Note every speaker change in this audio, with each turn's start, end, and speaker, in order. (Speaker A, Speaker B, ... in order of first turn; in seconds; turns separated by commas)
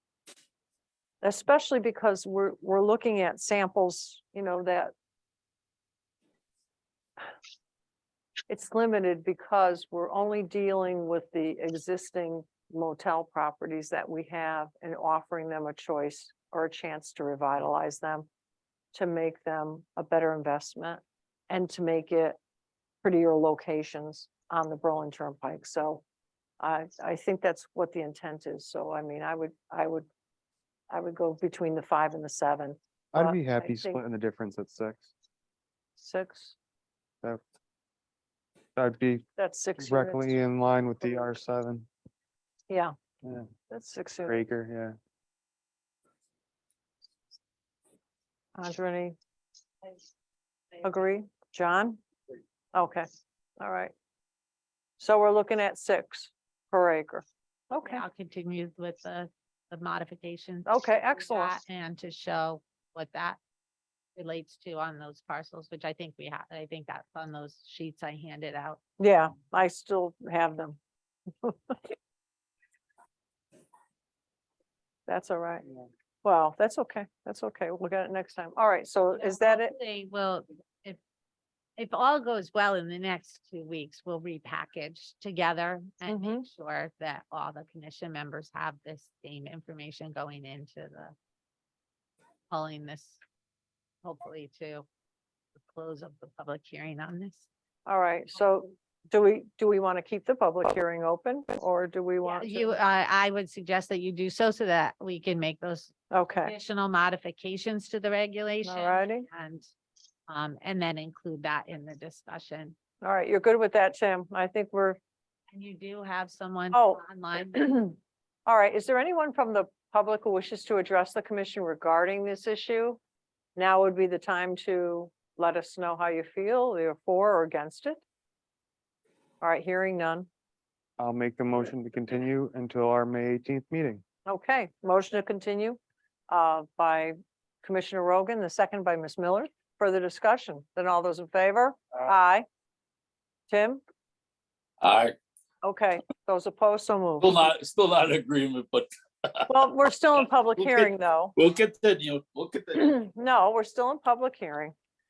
Speaker A: 1.2-4.9, Speaker A: 8.5-18.3, Speaker A: 18.9-22.4, Speaker A: 23.0-26.0, Speaker A: 26.6-30.1, Speaker A: 30.9-34.0, Speaker B: 33.1-35.1, Speaker A: 36.0-36.5, Speaker B: 38.8-39.2, Speaker A: 39.4-40.4, Speaker B: 39.8-41.9, Speaker B: 43.2-43.5, Speaker A: 43.7-44.4, Speaker B: 44.2-45.0, Speaker A: 48.5-49.1, Speaker A: 50.8-52.0, Speaker A: 52.7-53.0, Speaker A: 53.6-53.9, Speaker A: 55.0-58.0, Speaker C: 57.8-63.4, Speaker A: 60.7-61.5, Speaker C: 64.1-68.8, Speaker A: 69.0-70.8, Speaker A: 71.4-71.8, Speaker A: 75.1-75.7, Speaker A: 76.2-79.7, Speaker C: 79.2-81.0, Speaker C: 81.8-91.1, Speaker A: 86.1-86.4, Speaker C: 92.5-93.2, Speaker C: 94.0-94.8, Speaker C: 95.6-97.5, Speaker A: 97.8-102.7, Speaker C: 102.2-109.7, Speaker A: 106.1-106.5, Speaker A: 108.6-109.3, Speaker C: 110.3-112.8, Speaker A: 113.0-115.0, Speaker C: 115.5-117.8, Speaker A: 116.7-117.9, Speaker A: 118.5-123.0, Speaker A: 123.5-128.0, Speaker A: 129.4-130.3, Speaker B: 131.0-134.0, Speaker A: 134.2-142.4, Speaker A: 143.5-143.8, Speaker D: 144.8-145.2, Speaker A: 145.6-147.4, Speaker D: 147.2-149.7, Speaker A: 149.5-151.3, Speaker D: 150.6-153.0, Speaker A: 152.7-154.7